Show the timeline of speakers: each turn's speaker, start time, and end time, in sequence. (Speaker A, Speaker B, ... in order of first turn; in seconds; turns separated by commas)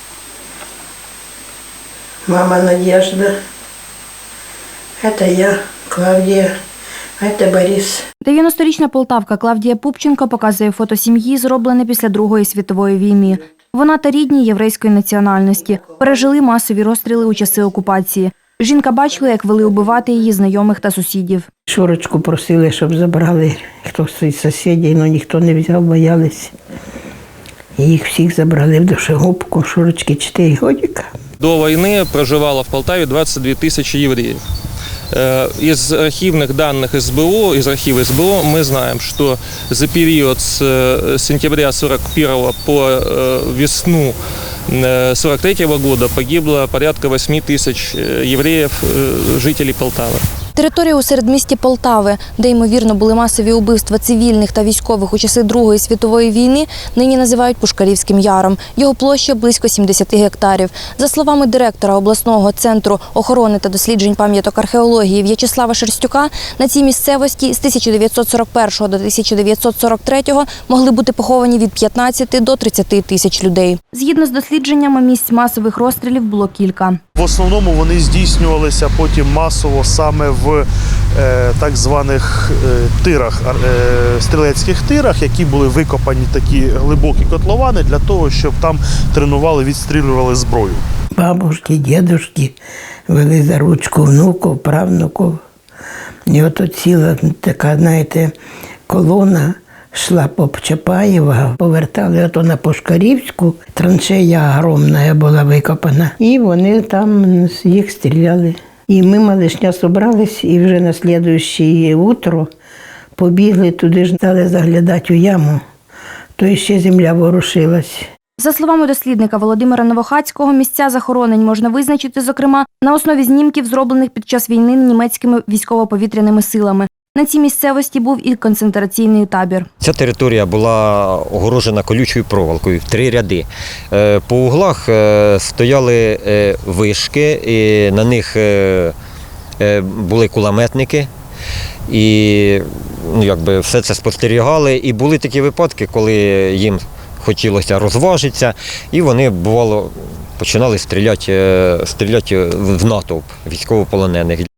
Speaker A: 2.3-3.3, Speaker A: 5.0-6.5, Speaker A: 7.2-8.1, Speaker B: 8.2-21.5, Speaker A: 21.7-26.5, Speaker A: 27.8-31.1, Speaker C: 31.4-34.4, Speaker C: 35.1-44.2, Speaker C: 44.7-50.2, Speaker B: 50.6-77.0, Speaker D: 77.2-80.7, Speaker D: 81.2-90.8, Speaker A: 91.2-92.5, Speaker A: 93.1-95.4, Speaker A: 96.3-98.3, Speaker A: 98.9-112.5, Speaker A: 113.2-115.6, Speaker A: 116.4-118.0, Speaker B: 118.4-129.7, Speaker E: 129.8-138.9, Speaker E: 139.6-141.1, Speaker E: 141.9-154.5